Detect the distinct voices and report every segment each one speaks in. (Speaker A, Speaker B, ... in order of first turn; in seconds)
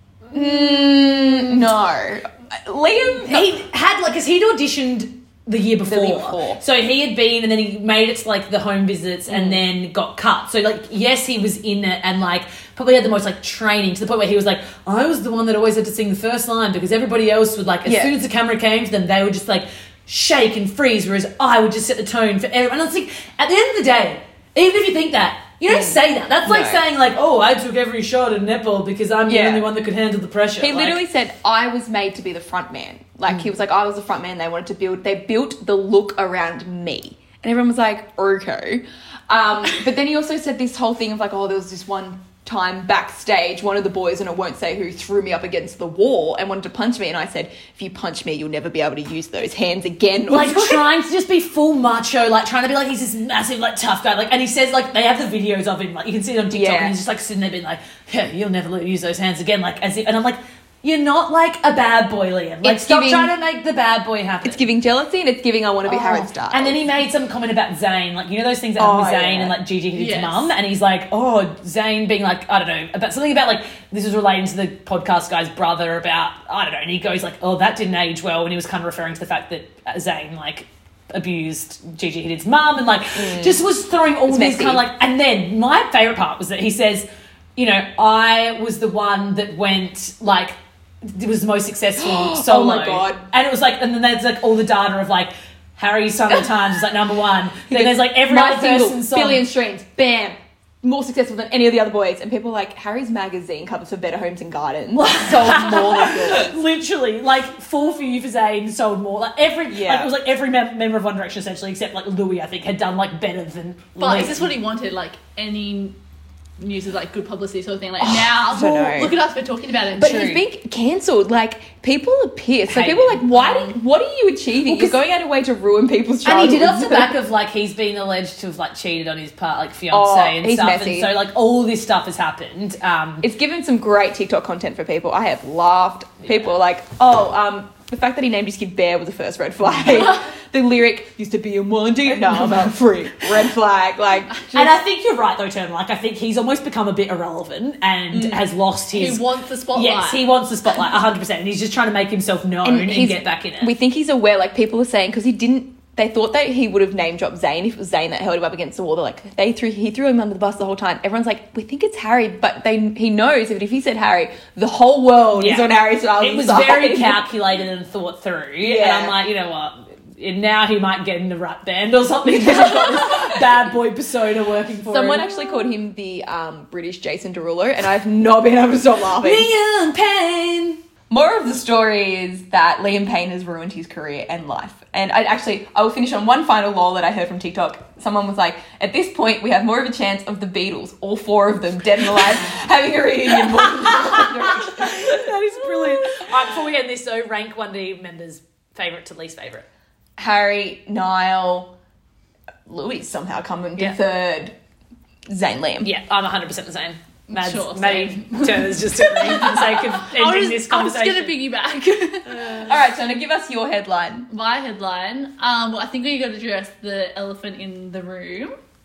Speaker A: 0.3-3.5, 5.8-6.6, 9.3-9.6, 17.8-18.1, 25.7-26.8, 29.3-29.7, 30.6-50.9, 56.5-57.0, 62.6-63.3, 64.4-66.8, 68.8-69.5, 83.1-83.6, 84.3-84.8, 92.0-93.2, 97.7-106.6, 109.7-110.1, 118.0-119.2, 119.9-127.1, 129.9-131.1, 133.2-144.7, 148.1-148.4, 152.6-167.2, 168.6-169.2, 172.3-173.4, 174.9-179.5, 181.1-196.3, 200.2-201.7, 202.7-204.5, 205.3-205.9, 212.5-214.3
Speaker B: 3.2-31.0, 50.3-64.6, 65.9-99.5, 105.3-114.4, 122.7-123.2, 126.2-133.2, 144.5-153.7, 165.4-175.2, 179.2-180.8, 193.7-199.7, 205.8-211.3
Speaker C: 69.9-70.5, 114.0-116.0, 116.6-120.4, 123.3-123.8, 148.9-150.2, 207.3-212.7, 214.3-218.5